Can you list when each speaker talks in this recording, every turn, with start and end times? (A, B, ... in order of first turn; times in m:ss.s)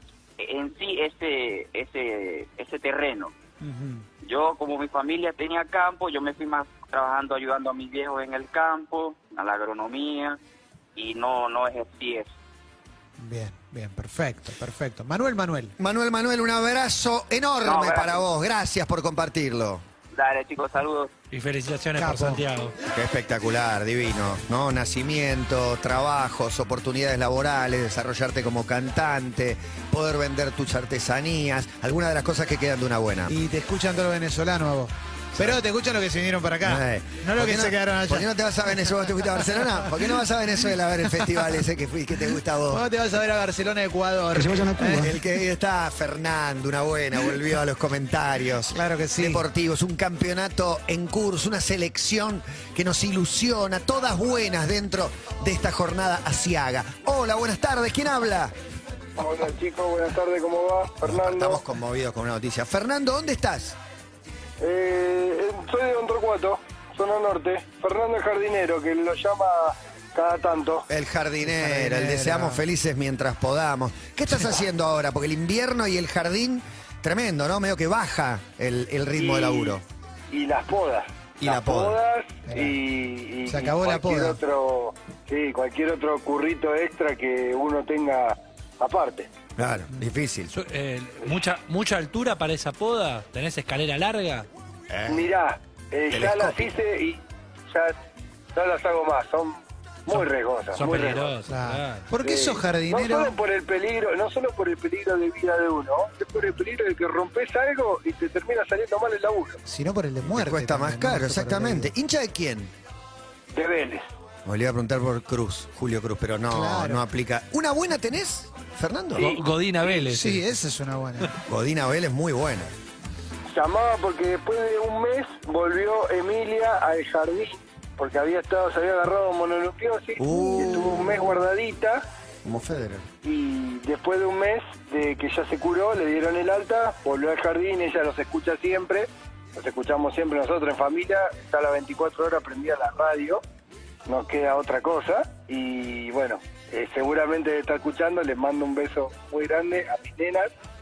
0:00.4-0:03.3 A
0:03.6-0:04.0 B
0:04.2-0:10.4 A
0:10.9-0:12.3 A
0:13.2-0:15.7 B
0:15.8-0:19.8 C
0:17.6-0:18.2 A
0:20.1-0:21.1 A
0:21.3-0:22.7 D
0:22.0-0:22.4 B
0:22.9-0:33.3 C
0:33.3-0:38.3 B
0:36.6-0:42.8 C
0:42.7-0:45.2 B
0:44.3-0:58.5 C
0:48.7-0:49.4 B
0:59.2-1:01.6 E
1:01.0-1:03.8 C
1:04.6-1:10.9 E
1:10.9-1:19.8 C
1:11.4-1:12.6 B
1:19.2-1:19.8 E
1:20.3-1:29.3 E
1:21.4-1:22.0 C
1:22.5-1:22.8 B
1:23.5-1:24.4 B
1:29.6-1:30.5 C
1:30.5-1:34.5 D
1:34.9-1:35.3 C
1:35.1-1:37.9 E
1:36.1-1:36.7 C
1:38.5-1:41.3 E
1:40.7-1:42.1 D
1:41.5-1:43.3 B
1:42.2-1:49.6 E
1:49.6-1:51.9 B
1:50.2-1:52.7 C
1:53.5-1:54.1 E
1:54.4-1:59.3 C
1:56.5-1:57.0 B
1:59.2-1:59.4 E
1:59.2-2:00.4 D
2:00.0-2:01.3 B
2:01.5-2:02.7 C
2:03.5-2:12.0 E
2:10.2-2:11.3 C
2:12.4-2:13.0 C
2:13.2-2:23.4 E
2:24.0-2:30.5 E